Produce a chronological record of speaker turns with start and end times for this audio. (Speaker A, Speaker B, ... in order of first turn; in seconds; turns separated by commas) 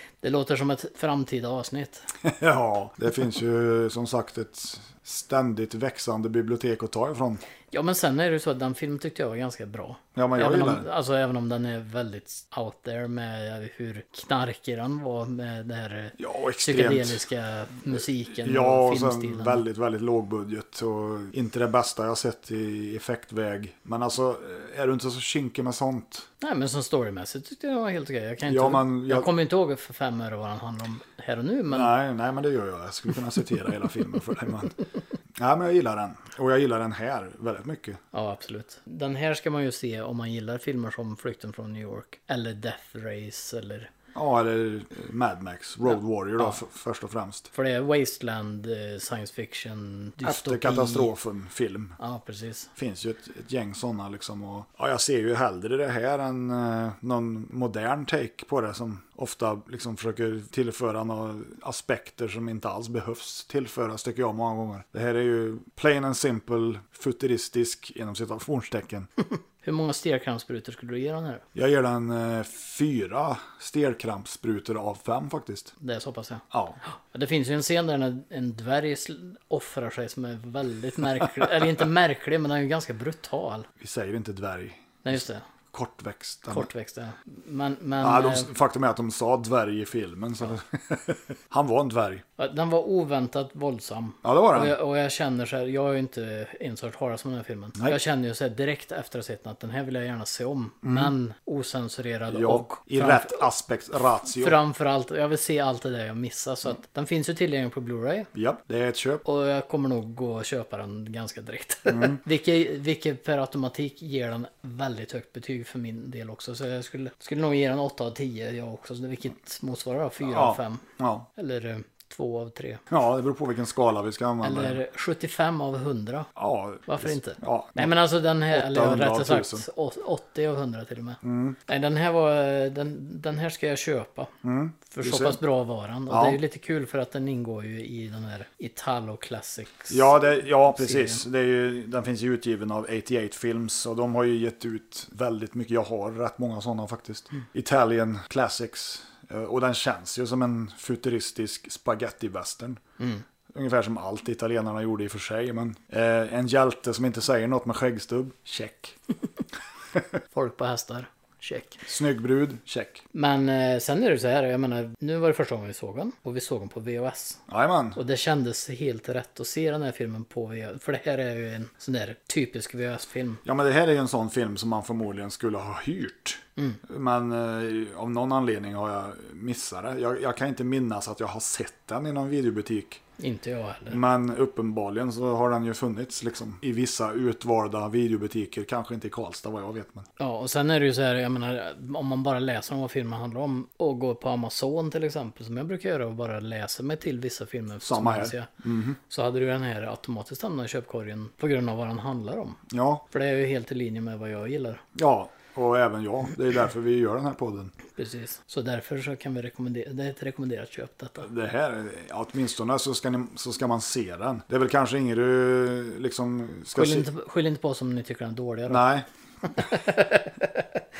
Speaker A: 0.2-2.1, Speaker B: 2.2-7.4, Speaker A: 7.7-19.6, Speaker B: 10.2-10.9, Speaker B: 16.2-17.2, Speaker B: 17.9-26.3, Speaker A: 26.4-31.9, Speaker B: 28.5-29.3, Speaker B: 31.7-34.8, Speaker B: 35.4-38.0, Speaker A: 38.1-43.9, Speaker B: 44.1-47.5, Speaker A: 47.5-51.1, Speaker B: 50.2-52.0, Speaker A: 52.0-52.7, Speaker B: 52.8-69.1, Speaker A: 69.6-71.5, Speaker B: 71.5-75.7, Speaker A: 75.8-83.7, Speaker B: 76.5-76.8, Speaker B: 83.8-85.0, Speaker A: 85.0-85.5, Speaker B: 85.7-86.7, Speaker A: 86.5-88.5, Speaker B: 88.0-92.2, Speaker A: 92.4-103.5, Speaker B: 94.2-94.8, Speaker B: 100.8-101.1, Speaker B: 102.3-104.6, Speaker A: 104.3-108.3, Speaker B: 108.3-109.2, Speaker A: 109.2-120.8, Speaker B: 111.9-112.2, Speaker B: 120.2-121.3, Speaker A: 121.4-122.8, Speaker B: 122.9-124.8, Speaker A: 124.4-126.3, Speaker B: 126.4-129.7, Speaker A: 126.9-134.3, Speaker B: 131.2-131.6, Speaker B: 134.4-135.4, Speaker A: 134.9-140.2, Speaker B: 136.1-136.4, Speaker B: 139.9-152.8, Speaker A: 140.7-141.2, Speaker B: 153.5-159.0, Speaker A: 160.3-161.8, Speaker B: 161.8-163.0, Speaker A: 163.1-167.4, Speaker B: 167.5-168.0, Speaker A: 168.0-173.4, Speaker B: 173.4-183.0, Speaker A: 183.2-184.0, Speaker B: 183.9-190.1, Speaker A: 190.2-198.5, Speaker B: 197.8-199.0, Speaker A: 199.1-204.8, Speaker B: 202.7-203.1, Speaker B: 204.9-207.7, Speaker A: 208.0-211.3, Speaker B: 211.2-217.1, Speaker A: 216.8-218.8, Speaker B: 218.7-219.1, Speaker A: 219.5-220.8